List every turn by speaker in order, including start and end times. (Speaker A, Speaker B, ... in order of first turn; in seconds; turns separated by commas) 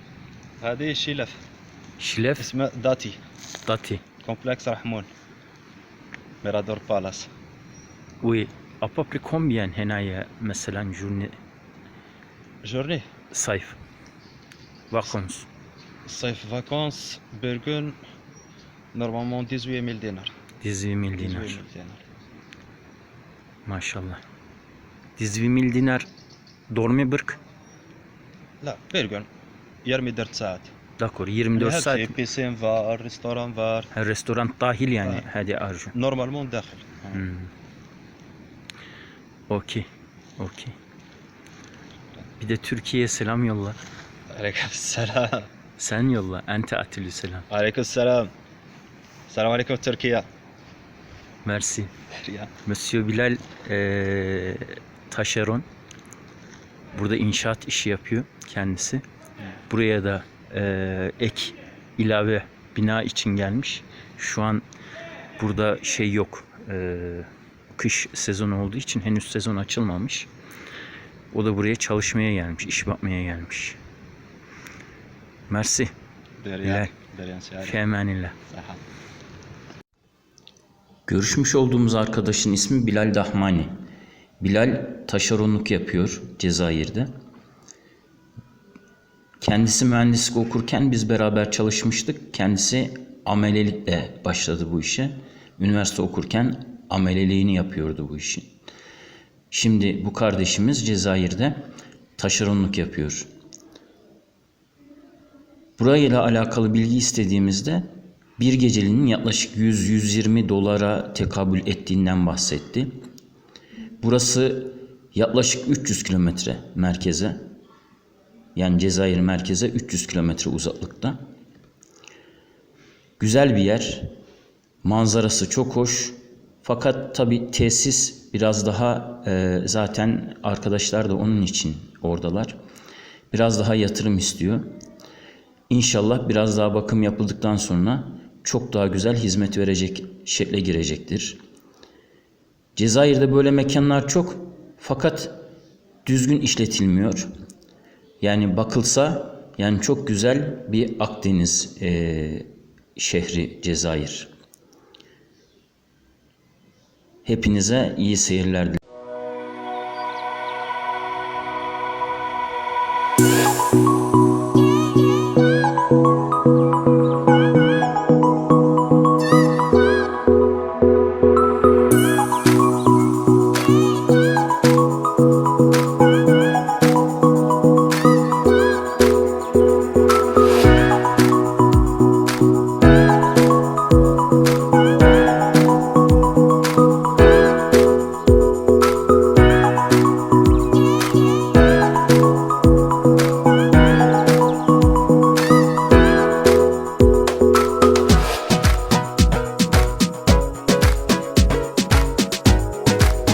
Speaker A: 0.6-1.4, Speaker B: 2.0-2.5, Speaker A: 2.4-3.2, Speaker B: 3.6-4.0, Speaker A: 4.2-5.1, Speaker A: 6.4-7.3, Speaker B: 8.2-11.4, Speaker A: 12.6-13.1, Speaker B: 13.3-13.8, Speaker B: 14.9-15.5, Speaker A: 16.1-18.0, Speaker A: 18.9-20.3, Speaker B: 20.6-21.6, Speaker A: 21.2-22.0, Speaker B: 23.7-24.2, Speaker B: 25.2-26.1, Speaker B: 26.7-27.4, Speaker A: 28.6-29.3, Speaker A: 29.8-30.7, Speaker B: 31.0-32.2, Speaker A: 31.6-33.9, Speaker B: 33.9-36.0, Speaker A: 35.9-37.2, Speaker B: 37.1-37.5, Speaker B: 39.5-40.8, Speaker B: 42.4-43.8, Speaker A: 44.3-45.5, Speaker B: 45.8-47.5, Speaker A: 47.5-48.3, Speaker A: 49.3-50.3, Speaker B: 51.4-51.9, Speaker A: 52.2-52.5, Speaker B: 52.6-55.7, Speaker B: 56.9-59.0, Speaker B: 59.7-64.6, Speaker B: 65.4-70.3, Speaker B: 71.3-73.8, Speaker B: 75.5-75.9, Speaker A: 76.4-77.8, Speaker B: 76.6-76.9, Speaker B: 77.6-78.4, Speaker A: 78.5-78.8, Speaker B: 81.1-83.7, Speaker B: 84.4-87.1, Speaker B: 89.4-98.5, Speaker B: 99.5-101.6, Speaker B: 102.2-103.3, Speaker B: 105.8-112.9, Speaker B: 114.0-117.4, Speaker B: 118.5-121.2, Speaker B: 123.2-124.1, Speaker B: 124.8-132.6, Speaker B: 133.3-134.7, Speaker B: 135.7-141.4, Speaker B: 142.8-145.4, Speaker B: 146.1-147.3, Speaker B: 148.2-154.3, Speaker B: 157.2-158.8